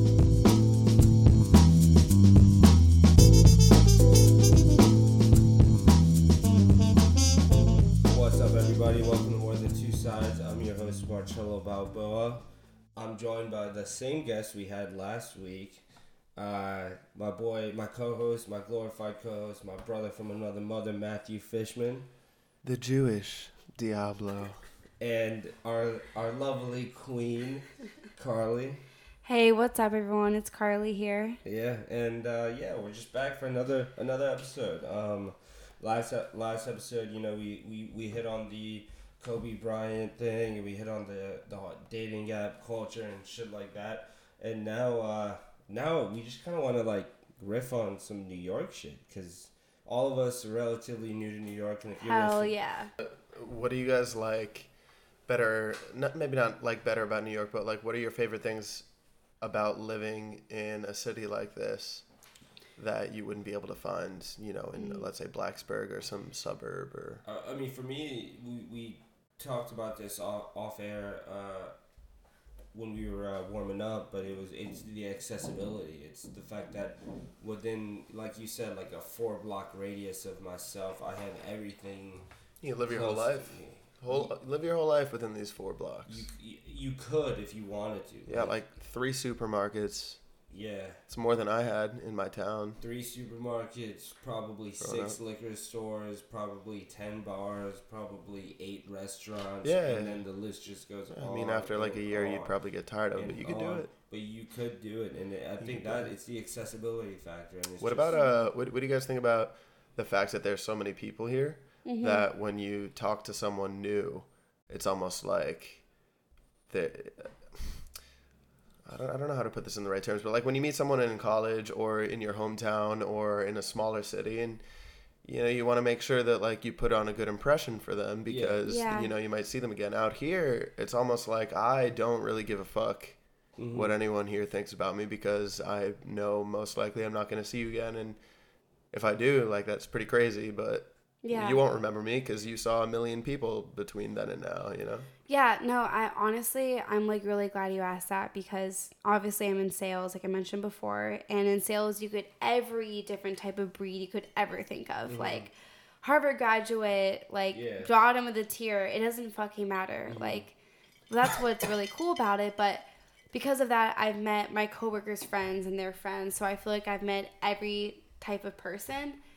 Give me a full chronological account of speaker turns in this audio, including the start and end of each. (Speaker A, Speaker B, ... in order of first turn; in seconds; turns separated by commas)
Speaker A: 8.0-15.8, Speaker A: 16.4-22.1, Speaker B: 22.6-24.6, Speaker A: 25.0-28.8, Speaker C: 29.2-31.4, Speaker A: 31.4-52.5, Speaker C: 52.0-52.9, Speaker B: 53.0-54.7, Speaker B: 55.2-58.9, Speaker B: 59.4-62.0, Speaker B: 62.8-67.2, Speaker C: 64.7-65.1, Speaker A: 67.2-71.7, Speaker A: 72.7-82.2, Speaker B: 82.6-86.3, Speaker A: 82.9-84.3, Speaker A: 86.1-88.5, Speaker B: 88.3-90.2, Speaker A: 90.5-91.0, Speaker B: 91.1-92.8, Speaker A: 92.8-102.5, Speaker B: 94.8-95.2, Speaker B: 99.6-100.2, Speaker B: 101.1-103.9, Speaker A: 103.1-108.2, Speaker B: 105.6-106.1, Speaker B: 107.8-115.8, Speaker C: 108.1-108.4, Speaker C: 111.8-112.2, Speaker B: 116.7-117.8, Speaker B: 118.8-124.6, Speaker B: 125.2-133.2, Speaker A: 128.3-128.6, Speaker C: 128.6-129.1, Speaker A: 133.6-133.9, Speaker B: 133.7-138.2, Speaker B: 138.9-145.1, Speaker C: 141.2-141.6, Speaker C: 145.3-155.5, Speaker A: 155.1-155.5, Speaker C: 156.0-160.5, Speaker A: 157.5-157.9, Speaker A: 160.1-160.4, Speaker C: 161.1-169.2